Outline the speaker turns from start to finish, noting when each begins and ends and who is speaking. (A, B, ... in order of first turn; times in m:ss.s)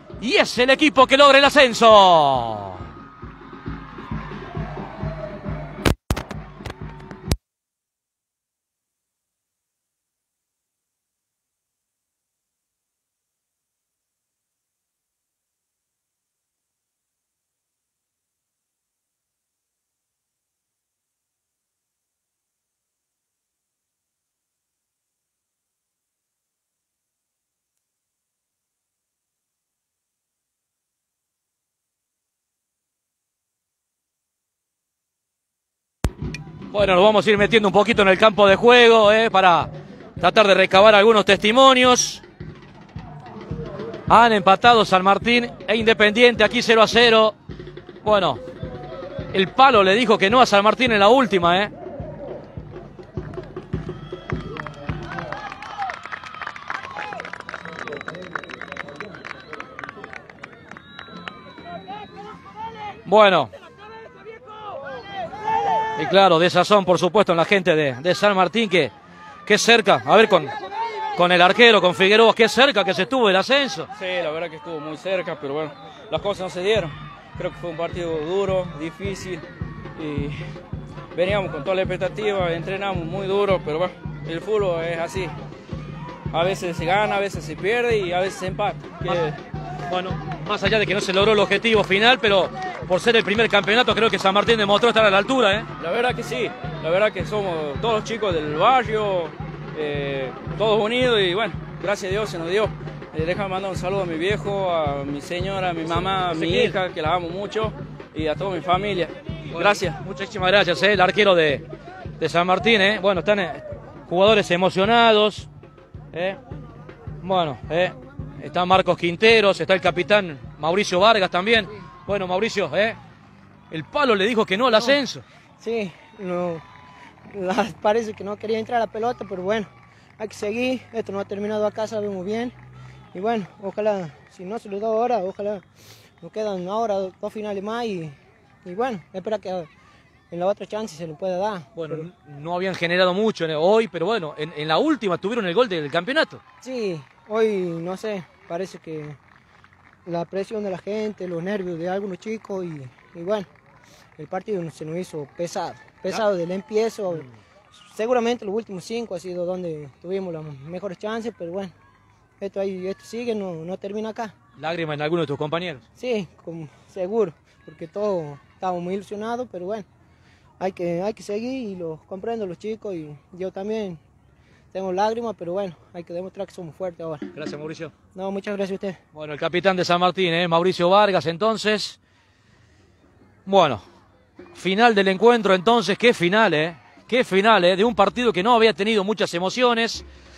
0:00.2-0:02.8 A
0:36.7-0:42.2 A
0:44.1-0:47.4 A
0:48.0-0:48.4 A
0:49.3-0:51.7 A
1:03.1-1:03.5 A
1:06.0-1:08.9 A
1:09.5-1:10.5 A
1:11.2-1:13.9 A
1:14.0-1:19.4 B
1:20.0-1:20.4 B
1:21.1-1:25.3 B
1:26.3-1:29.4 B
1:29.9-1:35.7 A
1:35.8-1:50.0 B
1:46.3-1:46.8 A
1:49.5-1:51.6 A
1:52.2-1:55.5 A
1:56.1-1:56.4 A
1:57.2-2:03.0 A
2:03.7-2:05.2 A
2:05.6-2:06.6 C
2:07.3-2:12.5 C
2:13.1-2:15.6 C
2:16.2-2:19.7 C
2:20.3-2:22.1 C
2:21.8-2:26.4 A
2:26.6-2:29.2 C
2:30.0-2:33.5 C
2:34.2-2:37.3 C
2:37.8-2:41.7 C
2:42.4-2:44.4 C
2:44.6-2:45.8 A
2:46.0-2:49.9 C
2:50.6-2:54.0 C
2:54.7-2:57.3 C
2:57.3-2:57.9 A
2:58.2-2:59.0 C
2:59.2-3:02.0 A
3:03.5-3:03.8 A
3:04.6-3:10.0 A